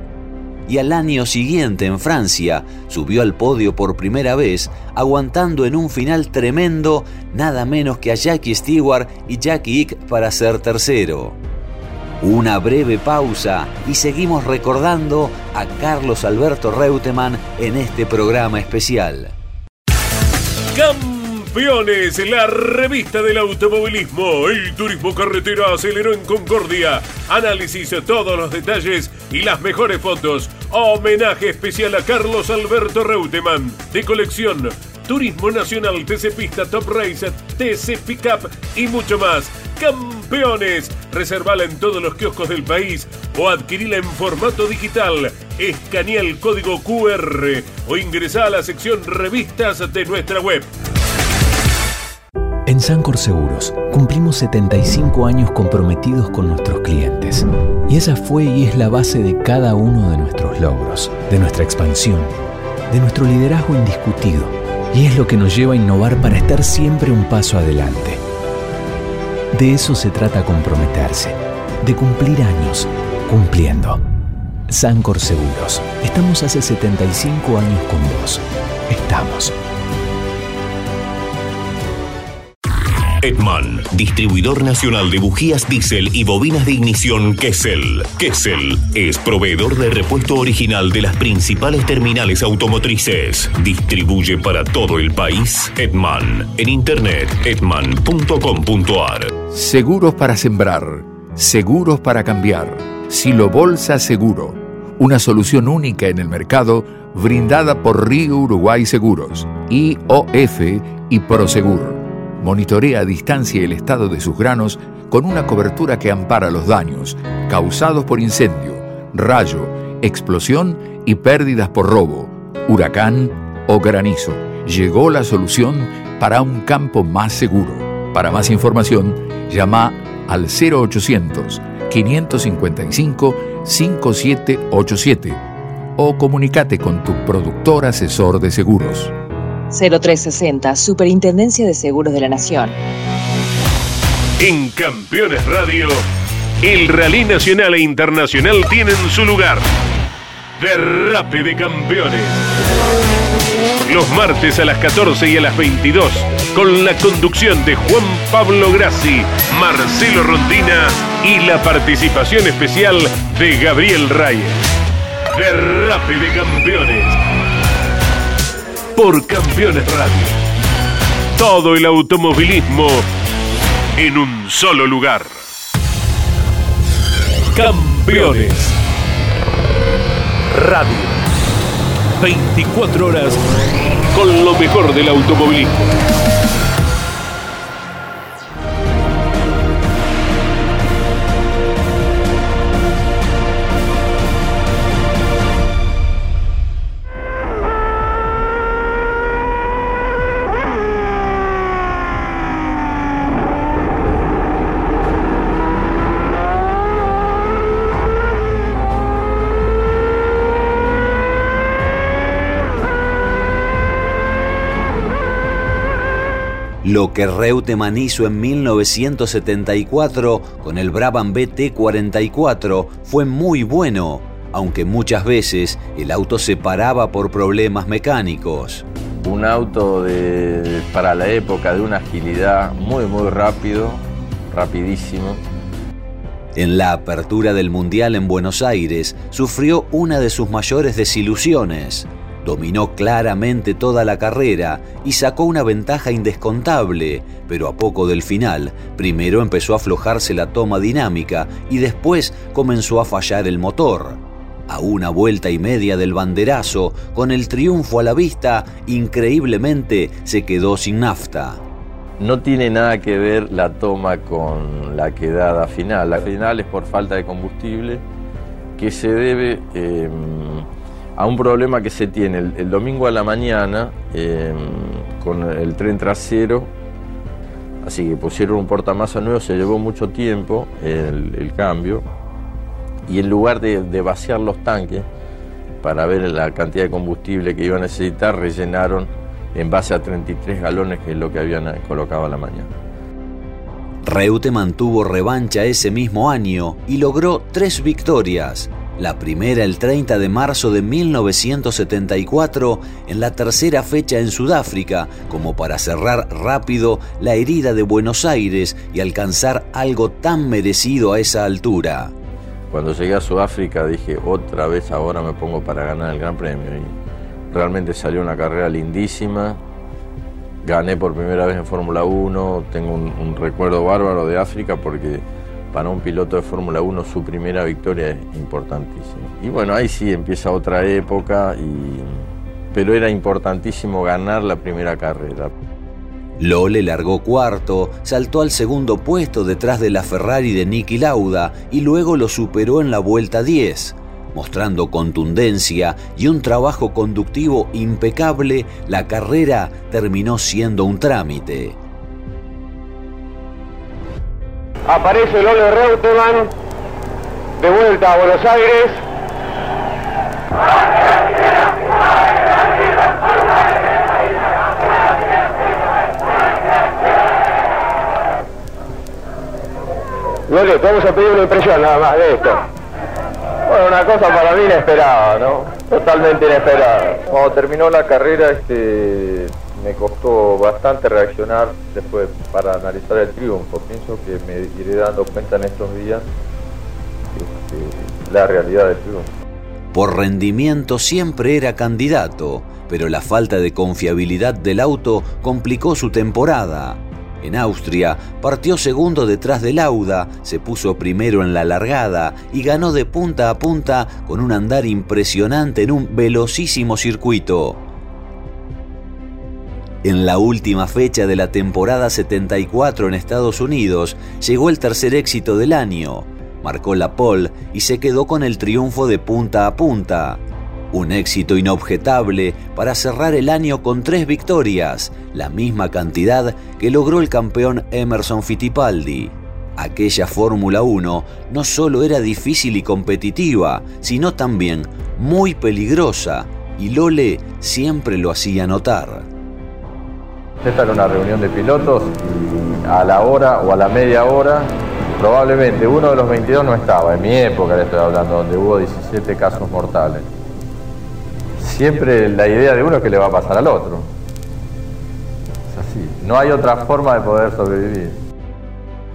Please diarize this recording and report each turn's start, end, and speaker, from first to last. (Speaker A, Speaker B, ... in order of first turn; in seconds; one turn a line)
Speaker A: 0.7-11.4
Speaker A: 12.2-19.4
Speaker B: 20.7-50.7
Speaker C: 52.7-62.3
Speaker C: 62.9-68.2
Speaker C: 69.5-74.0
Speaker C: 74.7-79.5
Speaker D: 83.2-99.3
Speaker E: 99.5-135.4
Speaker E: 136.0-139.1
Speaker F: 139.7-142.8
Speaker B: 144.4-146.0
Speaker B: 146.6-149.7
Speaker B: 150.6-152.5
Speaker B: 153.9-164.6
Speaker B: 165.3-167.2
Speaker B: 169.0-170.3
Speaker B: 171.4-173.1
Speaker B: 174.0-175.4
Speaker B: 177.5-178.8
Speaker B: 180.5-181.2
Speaker B: 182.2-183.4
Speaker B: 184.1-185.9
Speaker A: 216.8-228.8
Speaker G: 229.2-235.4
Speaker A: 236.6-261.6
Speaker G: 262.2-268.0
Speaker G: 268.8-276.7
Speaker G: 277.8-282.1
Speaker G: 283.1-285.1
Speaker G: 285.8-292.7
Speaker A: 294.0-312.1
Speaker G: 312.7-316.9
Speaker G: 317.5-319.6
Speaker G: 320.6-335.5
Speaker A: 336.4-351.8
Speaker H: 354.9-356.5
Speaker H: 357.6-359.0
Speaker H: 370.5-372.6
Speaker G: 373.7-374.4
Speaker G: 375.3-386.2
Speaker G: 387.4-389.3
Speaker A: 389.9-407.8
Speaker A: 410.0-420.4
Speaker A: 420.9-439.3
Speaker G: 440.6-450.3
Speaker G: 451.6-454.1
Speaker G: 455.7-458.2